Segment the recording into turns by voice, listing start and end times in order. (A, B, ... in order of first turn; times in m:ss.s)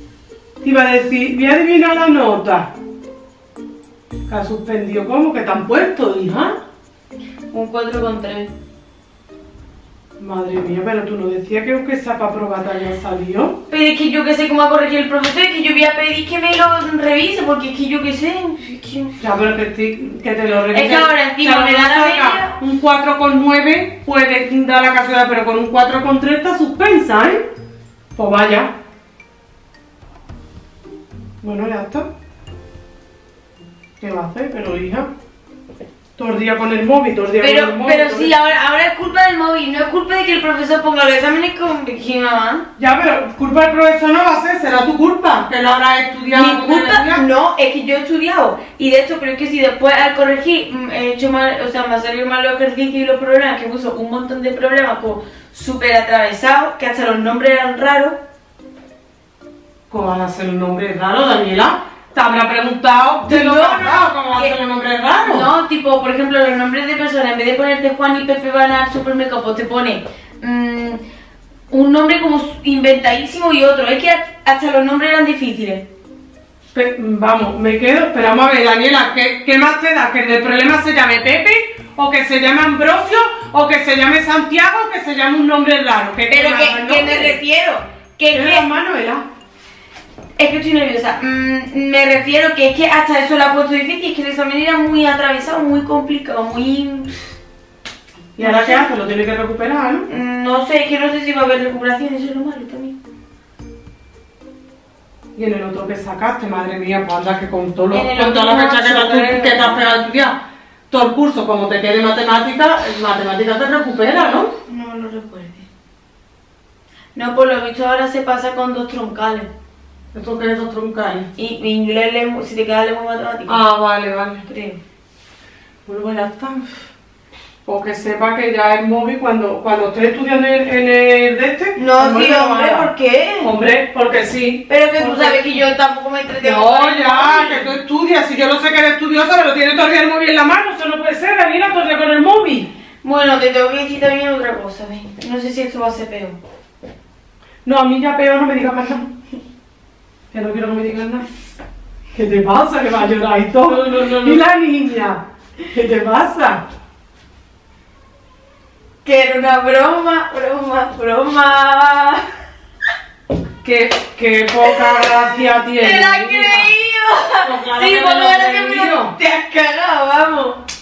0:00.6-0:02.7 A
0:04.3-0:06.6 A
0:07.5-0:08.5 B
0:10.2-0:13.6 A
0:13.7-0:19.2 B
0:19.2-0:27.4 A
0:20.7-0:22.6 B
0:28.2-0:28.7 A
0:31.4-0:32.1 A
0:34.0-0:35.1 A
0:36.2-0:38.3 A
0:37.4-0:42.7 B
0:42.8-0:47.2 A
0:46.3-0:58.2 B
0:59.9-1:05.5 A
1:03.3-1:04.6 B
1:05.2-1:11.0 B
1:11.7-1:15.9 B
1:16.7-1:27.4 A
1:26.3-1:28.7 B
1:28.3-1:29.2 A
1:30.4-1:37.4 B
1:38.4-1:40.1 A
1:38.4-1:38.9 B
1:40.1-1:43.0 B
1:45.4-1:50.4 A
1:47.9-1:50.0 B
1:50.9-1:54.5 A
1:54.7-1:55.7 B
1:57.2-1:59.5 B
2:00.1-2:01.3 A
2:01.4-2:03.6 B
2:03.5-2:04.4 A
2:04.5-2:04.8 B
2:05.9-2:06.8 A
2:07.7-2:15.6 A
2:11.8-2:13.5 B
2:14.7-2:17.7 B
2:16.4-2:22.7 A
2:23.0-2:26.4 B
2:27.6-2:29.1 A
2:30.3-2:31.3 A
2:32.1-2:36.6 A
2:39.0-2:42.2 B
2:43.6-2:46.7 A
2:45.8-2:50.6 B
2:47.4-2:49.2 A